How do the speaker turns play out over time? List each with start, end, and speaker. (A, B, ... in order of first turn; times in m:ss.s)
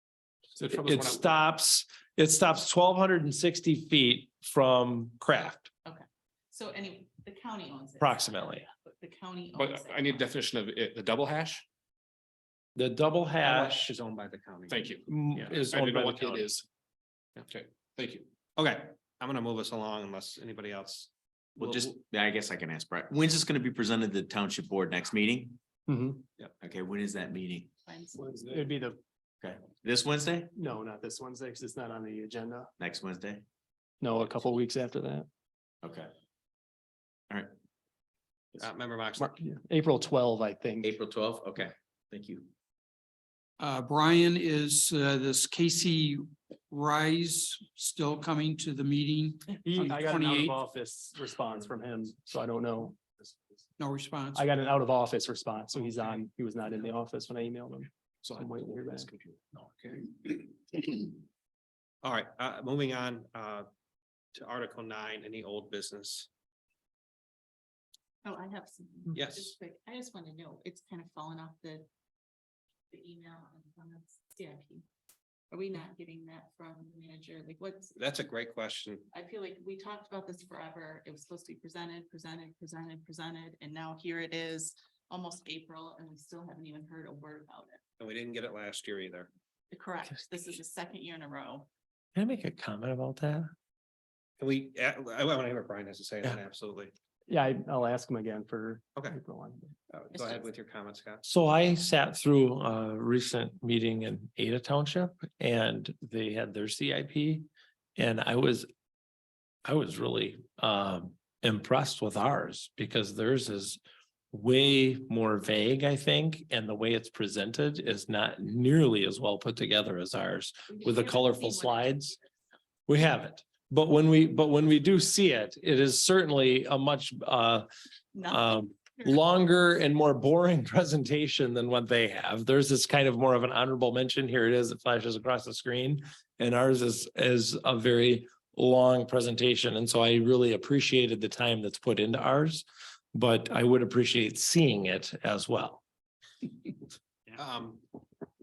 0:00.6-0:01.3 A
0:00.7-0:05.7 B
0:05.8-0:10.3 C
0:08.0-0:08.6 B
0:09.5-0:11.6 A
0:12.8-0:13.9 B
0:13.4-0:15.5 D
0:14.7-0:16.6 A
0:15.1-0:16.5 B
0:17.4-0:18.3 A
0:18.6-0:21.9 D
0:21.6-0:25.6 E
0:25.9-0:26.2 F
0:26.6-0:27.7 E
0:27.9-0:28.4 C
0:28.5-0:29.0 F
0:29.4-0:30.5 E
0:30.6-0:32.7 F
0:32.8-0:33.4 E
0:34.0-0:35.3 F
0:35.8-0:36.1 E
0:38.6-0:39.3 D
0:39.2-0:40.9 F
0:40.8-0:42.5 E
0:43.6-0:50.6 G
0:49.6-0:53.0 F
0:53.8-0:54.5 G
0:54.3-0:59.1 F
0:58.3-1:00.9 A
1:02.0-1:03.7 D
1:04.4-1:06.3 D
1:08.2-1:11.9 C
1:09.1-1:09.5 D
1:12.9-1:14.8 C
1:15.5-1:18.0 C
1:18.0-1:19.1 D
1:19.1-1:27.8 C
1:28.0-1:29.3 D
1:29.7-1:31.7 C
1:32.2-1:33.5 B
1:34.4-1:36.9 D
1:37.3-1:39.7 F
1:39.9-1:41.2 D
1:40.1-1:40.4 C
1:41.2-1:47.5 B
1:48.0-1:48.7 B
1:49.6-1:53.8 B
1:54.3-2:02.2 B
2:00.7-2:02.3 C
2:02.9-2:07.7 B
2:08.1-2:09.2 C
2:08.3-2:25.8 B
2:27.4-2:27.8 D